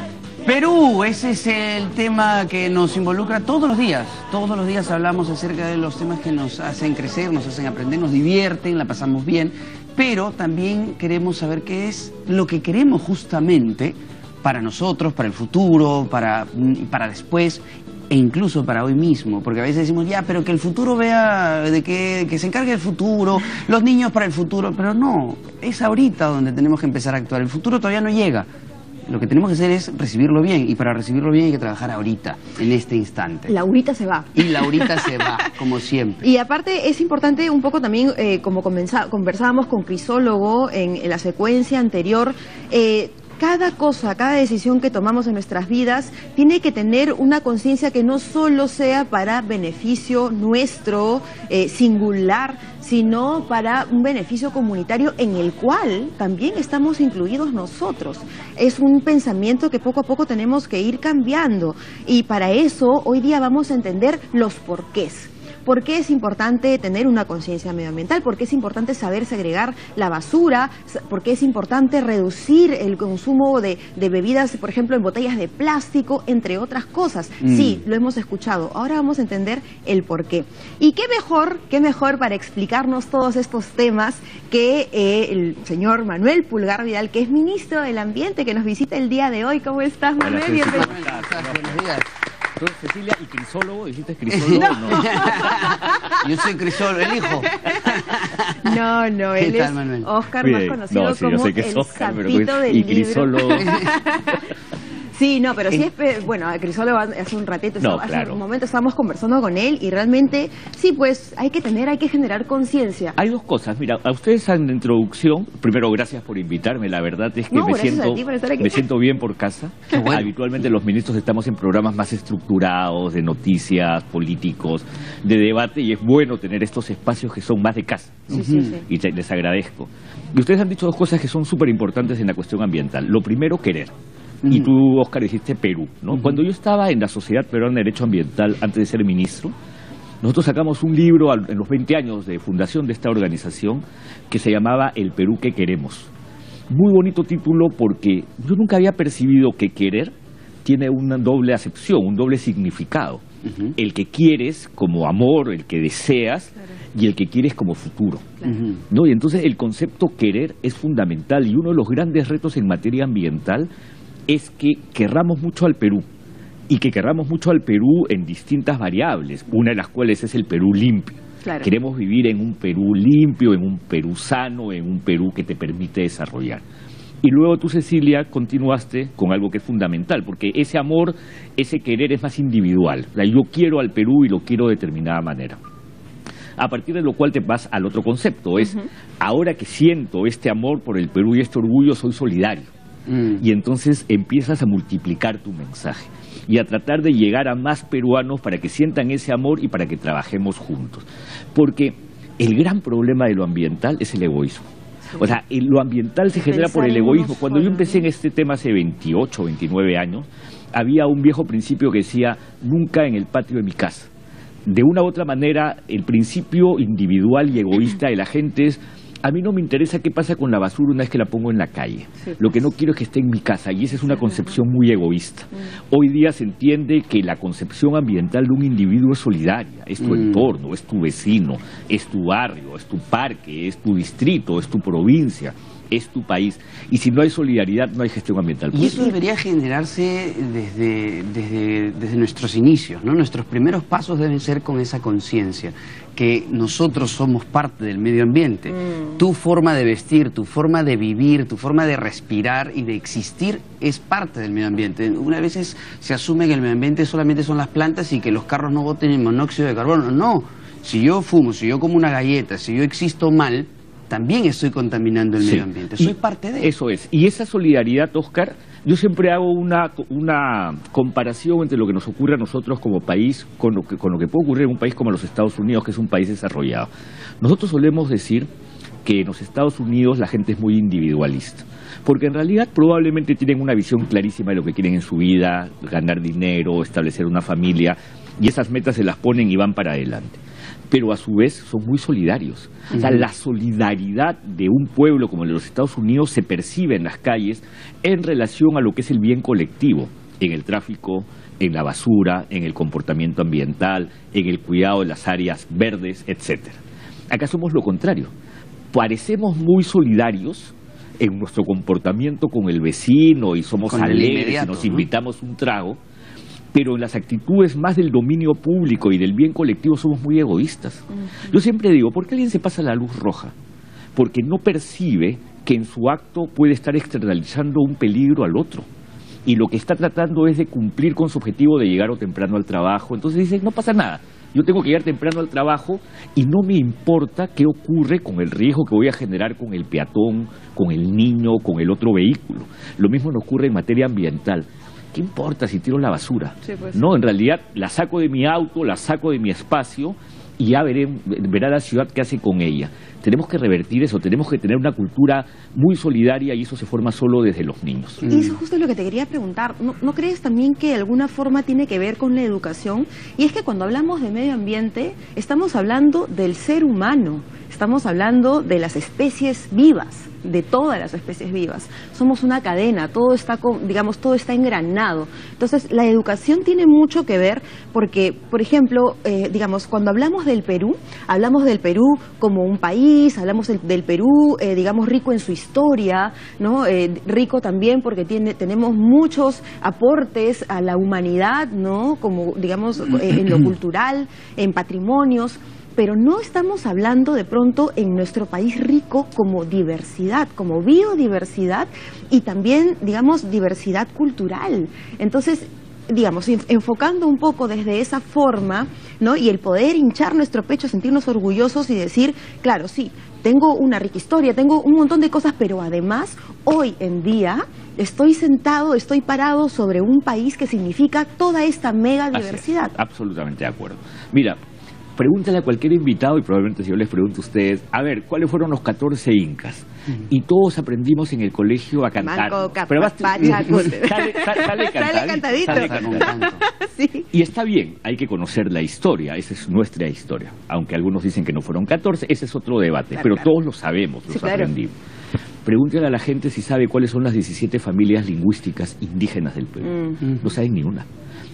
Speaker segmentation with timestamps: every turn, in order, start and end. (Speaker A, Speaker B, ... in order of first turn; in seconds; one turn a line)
Speaker A: 0.4-28.5
Speaker A: 29.1-33.5
Speaker B: 33.5-35.1
Speaker A: 34.3-36.2
Speaker B: 36.2-91.1
Speaker A: 77.4-77.8
Speaker C: 90.2-91.8
Speaker A: 90.7-92.0
Speaker C: 92.6-95.5
Speaker A: 94.3-98.7
Speaker B: 94.6-96.2
Speaker B: 97.5-104.5
Speaker A: 99.3-100.1
Speaker C: 100.4-103.8
Speaker A: 103.6-103.9
Speaker B: 105.1-113.1
Speaker C: 107.8-108.4
Speaker C: 113.2-133.9
Speaker B: 117.5-118.8
Speaker A: 119.9-120.2
Speaker A: 128.3-128.8
Speaker B: 128.3-128.8
Speaker A: 134.4-134.7
Speaker C: 134.5-139.5
Speaker C: 140.2-146.1
Speaker C: 146.7-150.1
Speaker C: 150.6-153.2
Speaker A: 153.4-153.7
Speaker C: 153.8-163.7
Speaker A: 158.4-158.8
Speaker C: 164.3-166.0
Speaker C: 166.7-176.6
Speaker C: 177.2-185.6
Speaker C: 186.6-192.7
Speaker A: 193.1-193.4
Speaker C: 193.4-204.7
Speaker C: 205.2-214.1
Speaker B: 206.3-208.0
Speaker C: 214.7-239.1
Speaker A: 230.1-230.4
Speaker A: 238.7-266.7
Speaker C: 265.4-276.9
Speaker C: 277.4-278.5
Speaker C: 279.0-290.4
Speaker C: 290.9-306.8
Speaker C: 307.3-308.3
Speaker C: 308.9-316.0
Speaker A: 313.9-315.1
Speaker C: 316.7-323.5
Speaker C: 324.1-328.9
Speaker C: 329.4-358.2
Speaker B: 346.6-347.0
Speaker A: 358.2-358.6
Speaker B: 358.2-422.9
Speaker C: 422.3-424.6
Speaker C: 425.2-436.4
Speaker B: 432.2-437.3
Speaker A: 435.7-436.6
Speaker C: 437.3-444.9
Speaker B: 444.3-444.7
Speaker C: 445.6-451.1
Speaker B: 449.9-450.2